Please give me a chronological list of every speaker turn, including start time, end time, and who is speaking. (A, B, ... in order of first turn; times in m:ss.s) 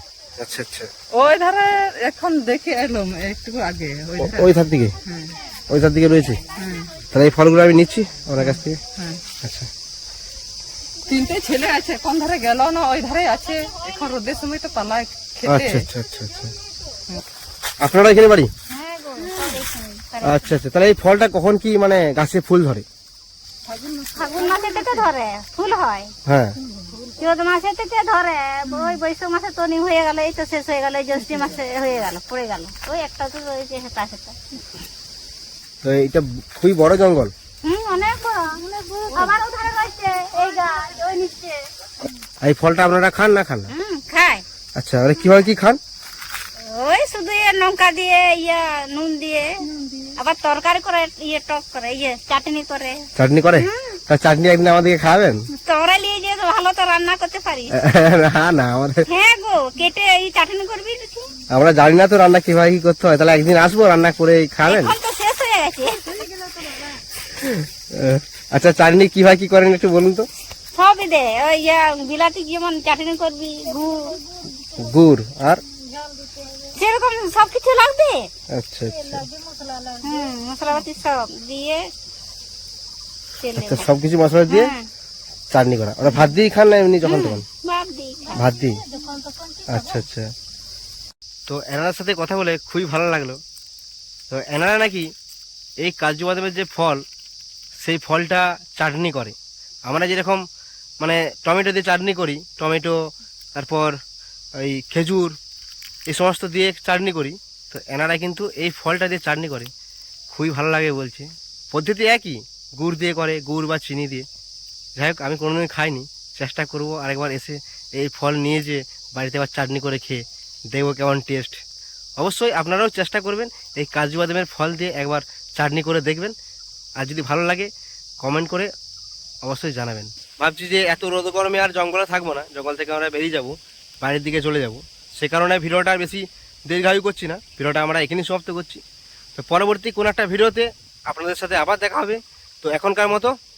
0:00.4-0:00.9 A
0:01.1-0:04.5 B
0:04.2-0:05.0 A
0:05.0-0:05.4 B
0:05.7-0:06.4 A
0:06.6-0:06.9 B
0:07.1-0:08.8 A
0:08.4-0:09.2 B
0:09.4-0:09.7 A
0:11.1-0:15.8 B
0:15.5-0:16.6 A
0:17.8-0:18.5 A
0:18.7-0:20.5 C
0:20.2-0:22.8 A
0:24.1-0:26.1 C
0:26.2-0:26.6 A
0:27.0-0:34.4 C
0:35.8-0:37.3 A
0:37.6-0:41.6 C
0:42.4-0:43.7 A
0:43.7-0:44.4 C
0:44.8-0:45.8 A
0:46.6-0:54.0 C
0:53.2-0:55.5 A
0:55.6-0:57.7 C
0:57.7-0:59.1 A
0:59.1-1:01.3 C
1:01.5-1:05.0 A
1:04.7-1:06.9 C
1:07.2-1:10.3 A
1:10.8-1:14.2 C
1:14.8-1:15.6 A
1:16.6-1:18.3 C
1:18.5-1:19.3 A
1:19.8-1:21.9 C
1:23.4-1:23.9 C
1:23.6-1:24.7 A
1:24.5-1:24.9 C
1:25.5-1:27.4 A
1:27.0-1:28.5 C
1:28.3-1:28.9 A
1:29.7-1:30.3 A
1:31.5-1:33.4 A
1:34.3-1:35.1 A
1:35.8-1:37.0 A
1:37.8-1:39.4 A
1:39.9-1:40.4 A
1:41.0-1:43.0 A
1:43.6-1:44.0 A
1:44.6-1:45.4 A
1:46.1-1:49.7 A
1:50.3-1:54.2 A
1:55.0-2:01.6 A
2:02.2-2:06.3 A
2:07.0-2:07.7 A
2:08.2-2:08.7 A
2:09.4-2:18.8 A
2:19.4-2:23.3 A